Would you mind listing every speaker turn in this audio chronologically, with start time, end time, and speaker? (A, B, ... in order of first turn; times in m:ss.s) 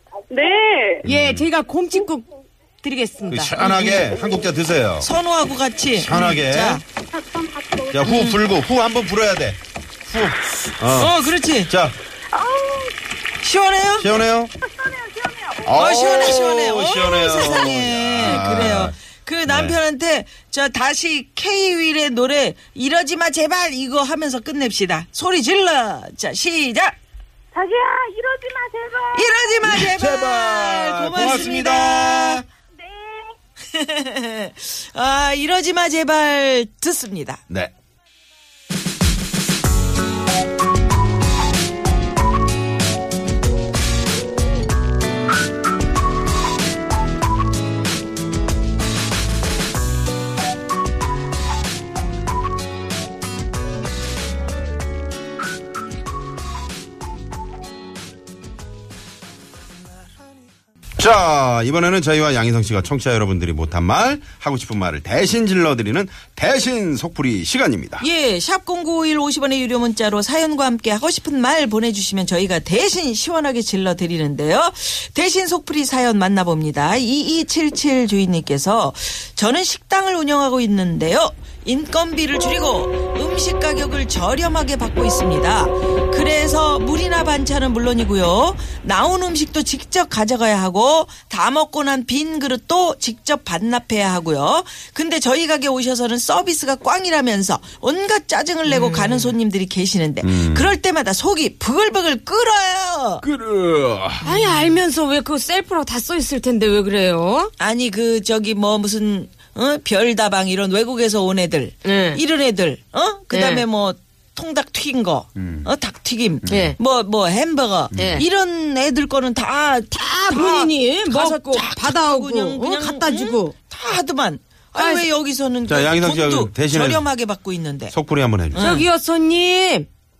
0:00.3-0:01.0 A
0:01.0-0:01.5 B
0:01.0-0:02.3 C
0:02.8-0:03.5 C
0:03.3-0:05.1 B
0:03.6-0:04.2 D
0:05.0-0:06.8 D
0:05.9-0:06.8 B
0:07.1-0:08.1 A
0:07.9-0:12.0 B
0:08.0-0:08.4 D
0:10.9-0:11.7 D
0:12.3-0:12.9 A
0:13.4-0:14.1 D
0:14.0-0:14.5 B
0:14.6-0:16.3 A
0:15.6-0:19.0 B
0:15.7-0:27.0 D
0:19.5-0:19.8 B
0:27.5-0:29.7 A
0:29.1-0:32.4 D
0:29.6-0:32.4 B
0:32.7-0:33.3 A
0:33.7-0:37.4 D
1:01.0-1:08.0 B
1:08.0-1:43.2 D
1:38.7-1:39.3 C
1:40.2-1:40.8 B
1:43.2-1:44.5 B
1:44.2-1:44.7 D
1:44.2-1:47.5 C
1:47.6-2:08.0 D
1:51.9-1:52.2 C
1:55.4-1:55.7 B
1:56.4-1:56.8 B
1:57.9-1:58.3 B
2:00.0-2:03.0 C
2:04.8-2:05.0 C
2:05.7-2:07.1 B
2:07.9-2:08.8 B
2:08.5-2:08.9 D
2:08.6-2:09.9 C